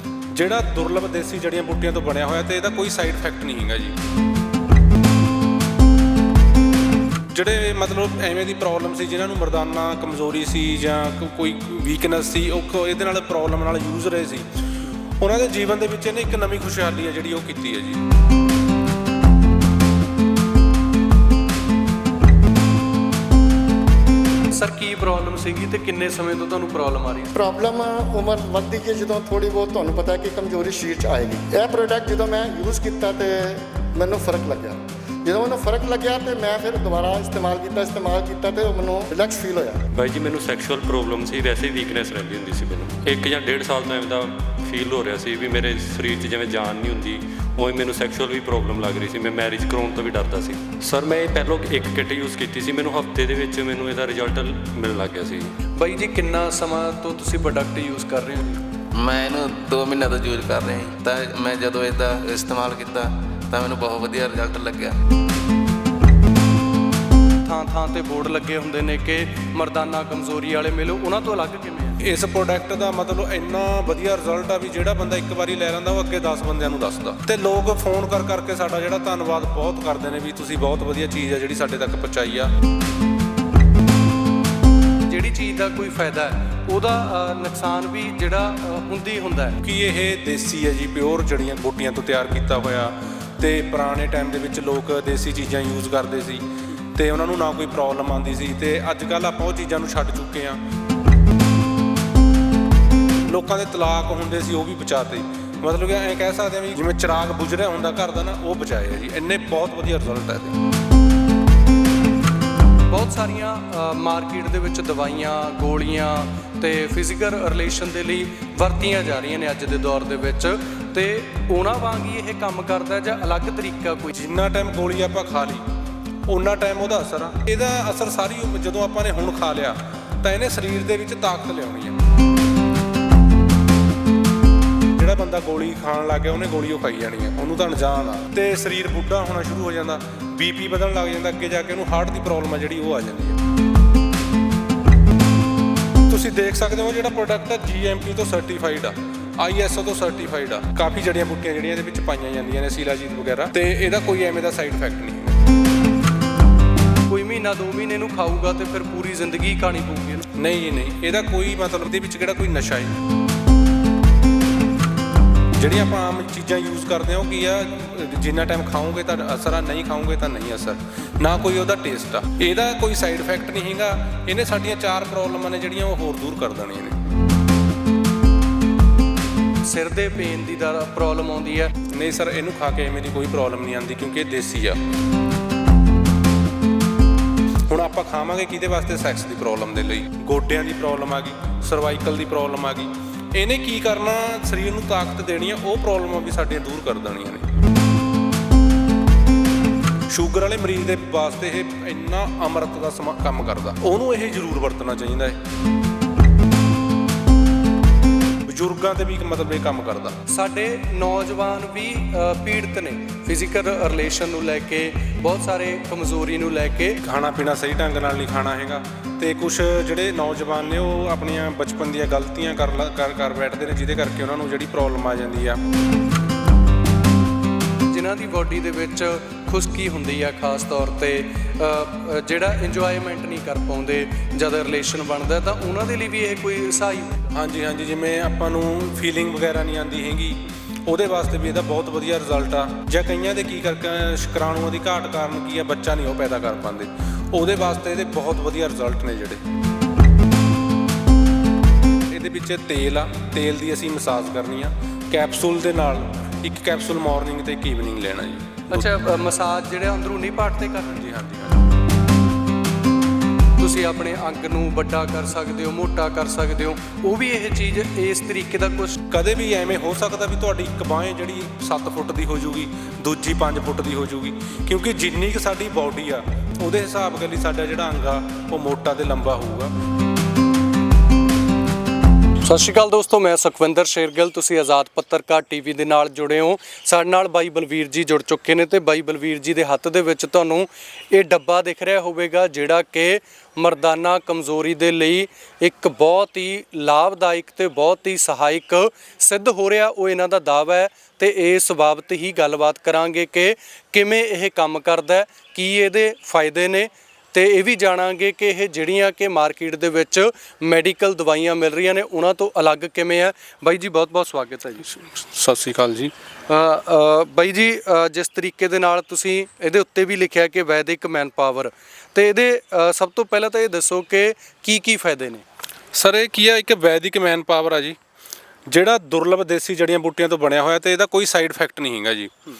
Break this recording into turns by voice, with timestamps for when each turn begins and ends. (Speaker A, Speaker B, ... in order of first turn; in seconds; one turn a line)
Speaker A: 0.3-4.0
Speaker A: 7.3-14.5
Speaker A: 15.2-18.0
Speaker B: 24.5-27.3
Speaker C: 27.3-39.9
Speaker D: 39.9-55.5
Speaker B: 55.7-58.6
Speaker E: 58.9-65.0
Speaker B: 67.4-72.0
Speaker A: 72.0-82.5
Speaker B: 85.1-89.6
Speaker A: 89.6-100.6
Speaker A: 103.2-110.6
Speaker B: 112.9-124.1
Speaker A: 124.1-125.6
Speaker A: 126.3-132.0
Speaker A: 134.9-143.4
Speaker A: 146.1-155.4
Speaker B: 157.1-160.3
Speaker A: 160.3-163.0
Speaker A: 165.6-177.0
Speaker B: 179.6-181.7
Speaker A: 181.8-184.8
Speaker A: 187.7-197.4
Speaker A: 200.1-205.4
Speaker A: 208.4-210.2
Speaker B: 210.3-217.0
Speaker A: 217.0-225.6
Speaker B: 227.8-237.3
Speaker A: 237.3-249.4
Speaker A: 252.1-258.9
Speaker B: 258.7-261.0
Speaker A: 260.9-261.6
Speaker B: 263.6-269.0
Speaker A: 269.1-279.7
Speaker B: 282.4-314.9
Speaker A: 314.9-316.1
Speaker B: 316.5-325.4
Speaker A: 325.9-328.0
Speaker A: 328.7-332.3